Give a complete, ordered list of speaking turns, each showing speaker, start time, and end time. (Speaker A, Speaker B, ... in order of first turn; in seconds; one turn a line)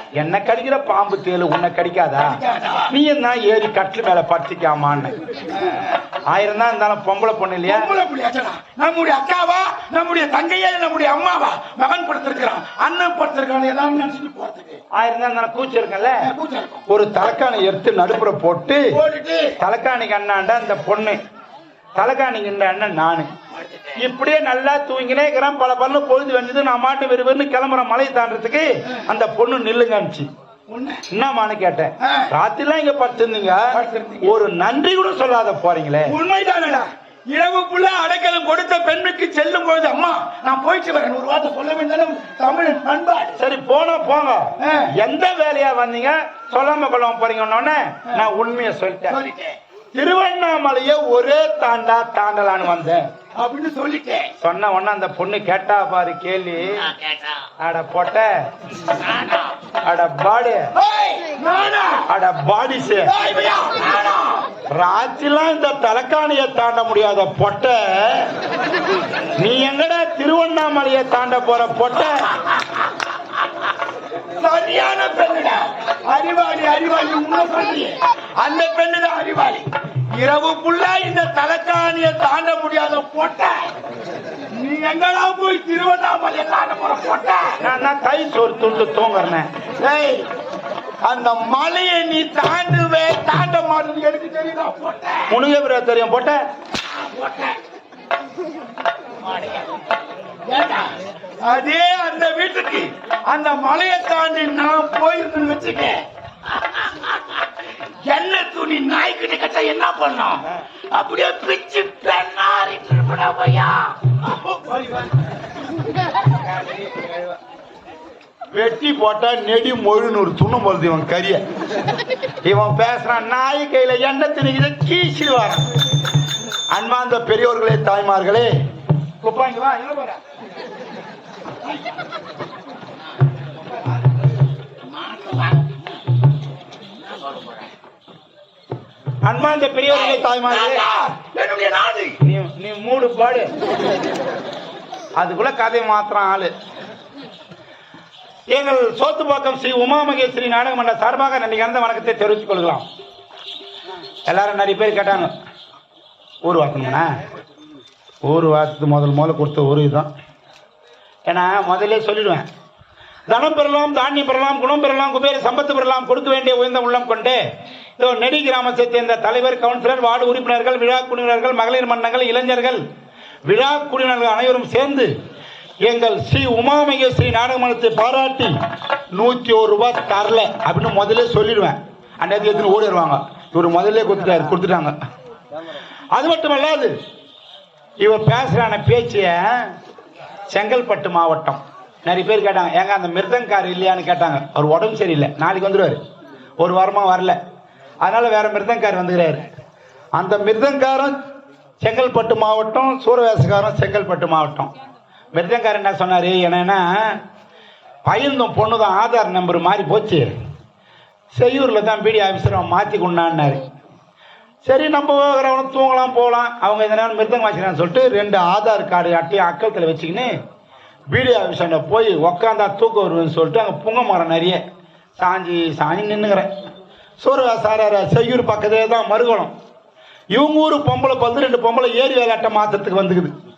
Speaker A: 0.2-2.4
Speaker B: 2.2-2.9
Speaker A: 2.9-5.1
Speaker B: 5.5-5.9
Speaker A: 6.3-7.9
Speaker B: 7.7-14.8
Speaker A: 14.9-16.2
Speaker B: 16.2-16.8
Speaker A: 16.9-18.9
Speaker B: 18.9-19.5
Speaker A: 19.6-21.2
Speaker A: 22.0-23.3
Speaker B: 23.5-24.0
Speaker A: 24.0-30.3
Speaker B: 30.7-31.0
Speaker A: 31.1-36.1
Speaker B: 32.0-32.3
Speaker B: 33.7-34.3
Speaker B: 36.1-43.4
Speaker A: 43.4-49.2
Speaker B: 44.6-44.9
Speaker B: 49.1-49.5
Speaker A: 49.9-53.0
Speaker B: 53.4-54.3
Speaker A: 54.4-56.8
Speaker B: 56.7-57.5
Speaker A: 57.6-58.3
Speaker B: 58.9-59.5
Speaker A: 59.8-60.6
Speaker B: 60.8-62.1
Speaker A: 62.1-63.1
Speaker B: 63.0-64.5
Speaker A: 64.7-68.3
Speaker A: 69.4-72.2
Speaker B: 71.9-72.9
Speaker B: 73.4-73.7
Speaker B: 74.4-83.7
Speaker B: 84.5-87.6
Speaker A: 87.6-89.5
Speaker B: 89.8-90.3
Speaker B: 91.0-95.3
Speaker A: 95.3-96.4
Speaker B: 96.8-97.5
Speaker B: 99.2-99.9
Speaker B: 100.5-100.9
Speaker B: 101.4-114.2
Speaker A: 118.5-121.4
Speaker A: 122.4-125.7
Speaker A: 126.7-128.5
Speaker A: 129.2-130.1
Speaker B: 129.8-130.1
Speaker B: 134.8-136.0
Speaker B: 136.9-137.7
Speaker A: 139.2-140.8
Speaker B: 139.9-142.2
Speaker A: 142.2-143.5
Speaker A: 145.2-146.5
Speaker A: 148.5-152.9
Speaker A: 154.3-155.3
Speaker A: 156.4-157.1
Speaker A: 158.2-160.1
Speaker A: 161.3-162.4
Speaker A: 163.3-167.4
Speaker A: 168.0-172.8
Speaker A: 173.5-175.1
Speaker A: 175.8-178.5
Speaker A: 179.1-184.9
Speaker A: 186.1-186.9
Speaker A: 188.0-189.7
Speaker A: 190.5-196.0
Speaker A: 196.6-197.4
Speaker A: 198.0-199.4
Speaker A: 200.2-201.1
Speaker A: 201.8-204.7
Speaker A: 205.3-207.2
Speaker A: 208.0-210.3
Speaker A: 211.3-213.6
Speaker A: 214.6-220.3
Speaker A: 221.1-224.6
Speaker A: 225.2-226.5
Speaker A: 227.2-229.5
Speaker A: 230.3-233.3